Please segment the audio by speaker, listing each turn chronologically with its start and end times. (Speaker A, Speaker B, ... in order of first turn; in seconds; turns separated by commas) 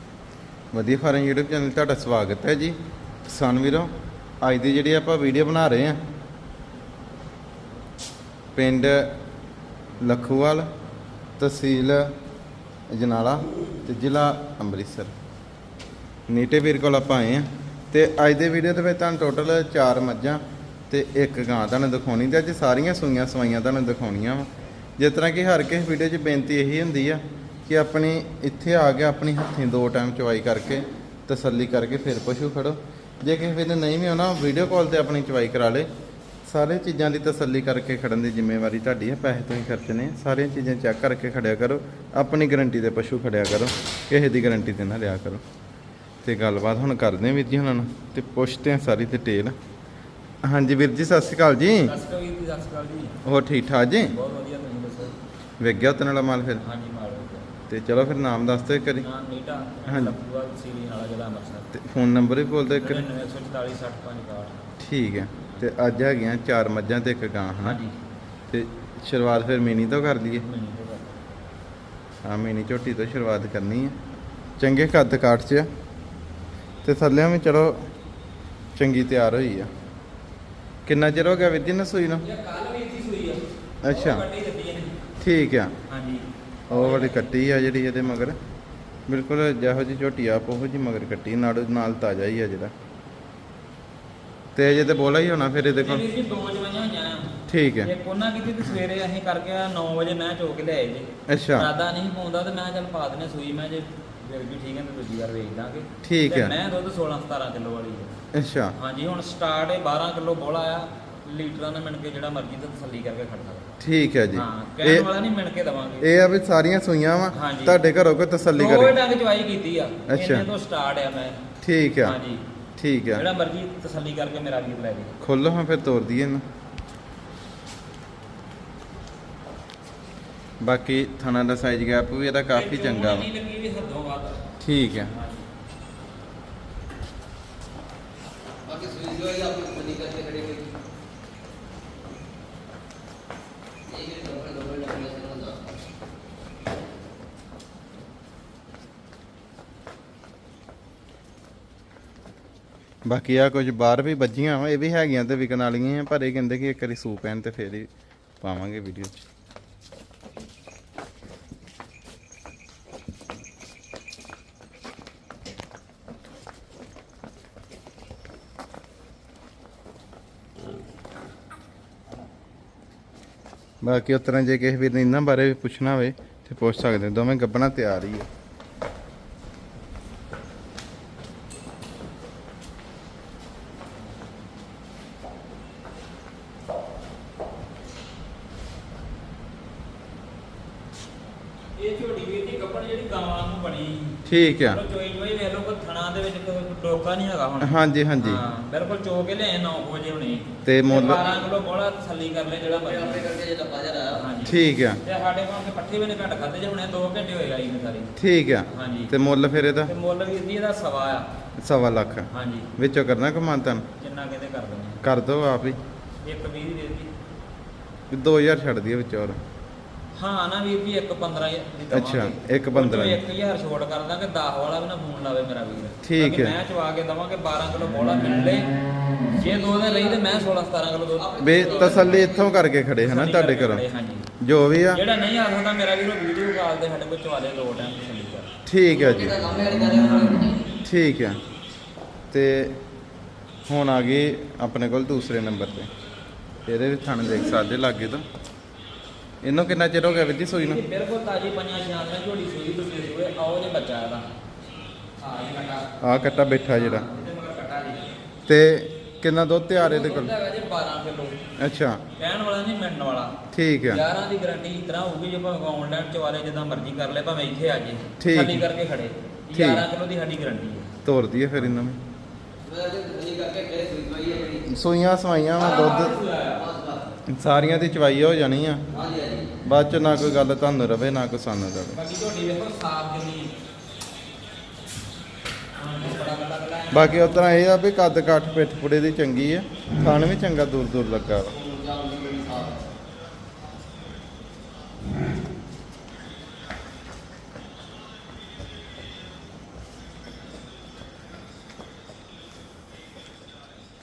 Speaker A: 0.7-6.0, Speaker A: 8.5-9.1, Speaker A: 10.0-10.7, Speaker A: 11.4-12.1, Speaker A: 12.9-15.1, Speaker A: 16.3-35.9, Speaker A: 36.5-45.4, Speaker A: 46.2-49.5, Speaker A: 50.4-52.0, Speaker B: 51.8-53.2, Speaker A: 53.2-54.1, Speaker B: 54.0-55.1, Speaker A: 55.6-56.6, Speaker B: 56.6-57.5, Speaker A: 57.7-59.0, Speaker B: 59.0-61.7, Speaker A: 59.9-60.1, Speaker A: 61.7-63.0, Speaker B: 62.7-64.6, Speaker A: 64.8-67.8, Speaker B: 67.6-68.0, Speaker A: 68.5-70.4, Speaker B: 70.4-71.2, Speaker A: 72.2-74.0, Speaker A: 74.6-75.7, Speaker A: 76.8-77.9, Speaker A: 78.8-79.7, Speaker A: 80.8-82.2, Speaker B: 82.2-85.0, Speaker A: 83.8-84.2, Speaker A: 85.2-85.7, Speaker B: 85.9-87.2, Speaker A: 86.7-88.4, Speaker A: 89.1-92.7, Speaker A: 94.5-96.0, Speaker B: 95.7-108.1, Speaker A: 97.5-97.9, Speaker A: 101.3-101.7, Speaker A: 106.0-106.5, Speaker A: 108.3-108.7, Speaker B: 108.7-113.7, Speaker A: 113.8-115.1, Speaker B: 114.3-116.1, Speaker A: 116.0-119.0, Speaker B: 117.3-117.8, Speaker B: 118.5-121.4, Speaker A: 120.1-120.5, Speaker A: 121.6-122.2, Speaker B: 122.0-122.4, Speaker A: 122.8-123.2, Speaker B: 123.1-125.1, Speaker A: 125.2-126.4, Speaker A: 130.6-133.3, Speaker B: 132.5-135.4, Speaker A: 134.6-135.1, Speaker C: 138.6-140.7, Speaker C: 143.8-145.6, Speaker A: 153.1-157.9, Speaker A: 158.4-159.2, Speaker A: 173.8-178.3, Speaker B: 191.8-203.3, Speaker A: 194.2-194.8, Speaker A: 197.6-198.4, Speaker A: 200.6-201.2, Speaker C: 202.8-204.2, Speaker B: 204.1-208.1, Speaker A: 204.4-205.0, Speaker A: 208.2-209.9, Speaker B: 208.7-209.1, Speaker B: 209.8-211.3, Speaker A: 211.6-213.8, Speaker B: 212.3-212.7, Speaker B: 214.0-215.0, Speaker A: 215.0-215.8, Speaker B: 216.2-217.1, Speaker A: 218.1-219.4, Speaker B: 220.1-228.7, Speaker A: 221.9-223.2, Speaker A: 226.0-226.6, Speaker B: 229.3-232.3, Speaker C: 229.3-230.4, Speaker C: 231.2-232.3, Speaker A: 231.4-233.8, Speaker B: 233.0-234.3, Speaker A: 234.4-235.0, Speaker B: 234.9-238.5, Speaker A: 238.7-239.4, Speaker C: 238.9-240.7, Speaker A: 240.8-241.4, Speaker A: 242.3-242.8, Speaker A: 243.7-245.9, Speaker A: 246.6-248.2, Speaker A: 249.4-250.8, Speaker B: 250.6-254.2, Speaker B: 255.2-255.9, Speaker A: 256.0-257.1, Speaker B: 256.7-258.1, Speaker A: 258.5-260.3, Speaker B: 259.8-261.4, Speaker A: 261.6-262.0, Speaker B: 262.1-270.9, Speaker A: 263.5-264.0, Speaker A: 268.2-268.6, Speaker A: 269.5-269.8, Speaker A: 271.0-272.0, Speaker C: 272.6-274.7, Speaker A: 274.7-276.1, Speaker B: 275.6-276.6, Speaker C: 276.5-277.2, Speaker A: 277.3-278.8, Speaker C: 278.9-279.6, Speaker A: 279.6-282.0, Speaker B: 281.9-283.5, Speaker B: 285.8-287.4, Speaker A: 286.9-291.6, Speaker C: 291.5-292.8